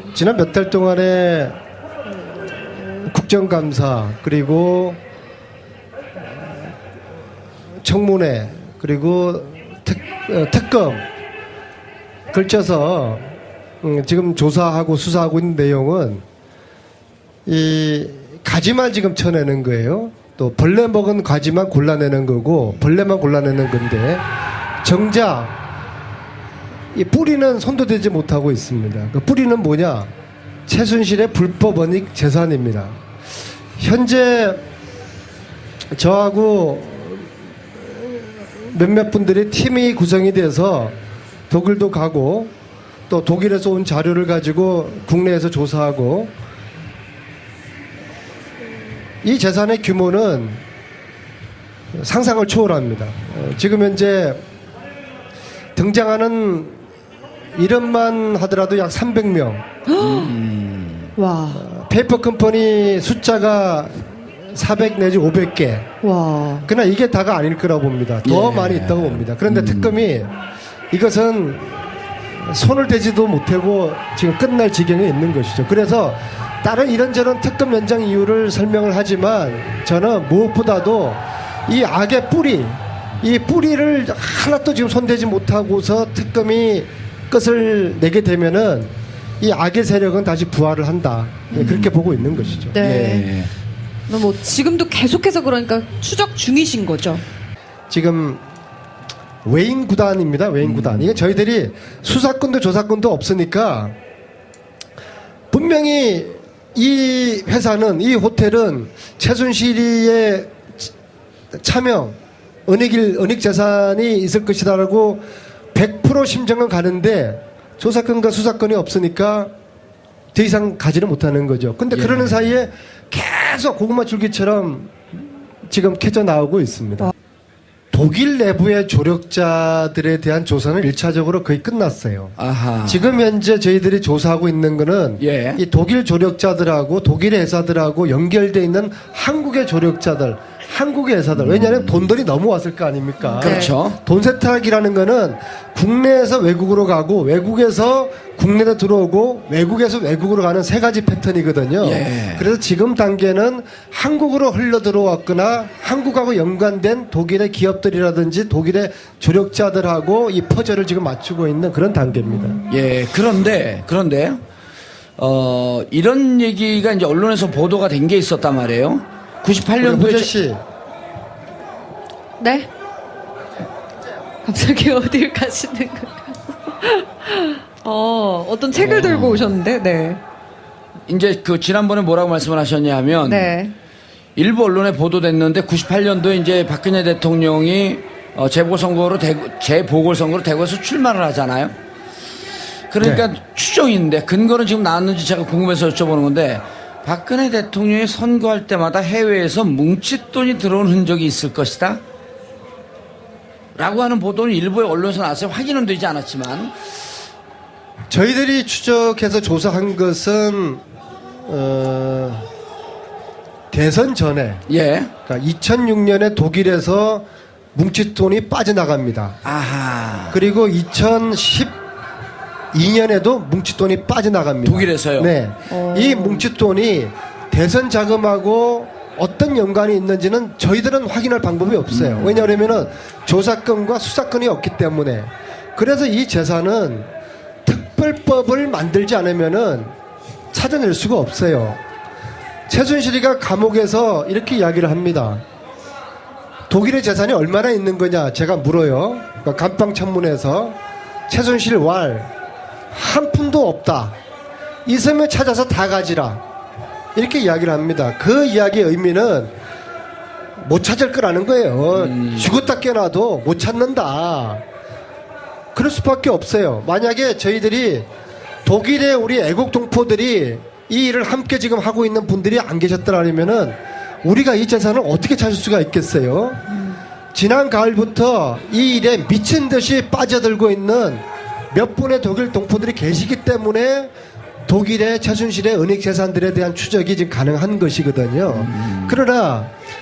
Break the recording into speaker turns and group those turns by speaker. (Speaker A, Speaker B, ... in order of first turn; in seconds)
Speaker A: 0.1-1.6, 2.8-5.0, 7.8-11.0, 12.3-16.2, 17.4-24.2, 24.8-25.5, 26.9-30.1, 30.7-33.0, 33.8-34.6, 35.9-41.0, 41.5-42.5, 43.1-46.3, 49.2-50.6, 51.9-54.4, 55.8-56.8, 57.5-59.6, 61.5-65.9, 66.6-70.3, 70.9-92.8, 97.9-98.4, 99.4-103.9, 105.5-110.9, 111.5-119.5, 120.3-125.0, 125.7-127.1, 127.9-132.3, 132.9-162.6, 169.8-170.6, 208.1-210.8, 211.4-212.5, 213.7-214.6, 215.3-219.4, 220.3-221.8, 222.7-237.1, 237.6-239.9, 240.5-241.8, 242.7-245.4, 246.7-250.8, 251.3-252.3, 252.9-254.2, 254.8-256.4, 257.1-259.5, 260.6-264.6, 265.7-268.1, 268.6-276.6, 277.3-284.1, 284.7-289.7
Speaker B: 59.9-60.3, 61.1-61.6, 66.0-66.7, 92.7-93.3, 94.1-97.2, 143.2-143.8, 172.4-172.7, 174.4-180.2, 183.2-183.7, 225.7-226.5
Speaker C: 60.0-61.1, 68.2-70.0, 91.5-93.5, 100.6-101.2, 121.9-122.5, 132.4-133.1, 135.2-135.6, 141.4-142.1, 143.4-144.0, 151.8-152.5, 162.7-164.4, 165.2-170.3, 178.7-179.6, 181.1-183.5, 184.3-191.7, 192.9-202.0, 203.8-206.7, 214.7-215.1, 219.4-220.4, 224.6-225.3, 231.9-232.9, 262.0-262.5, 288.5-289.2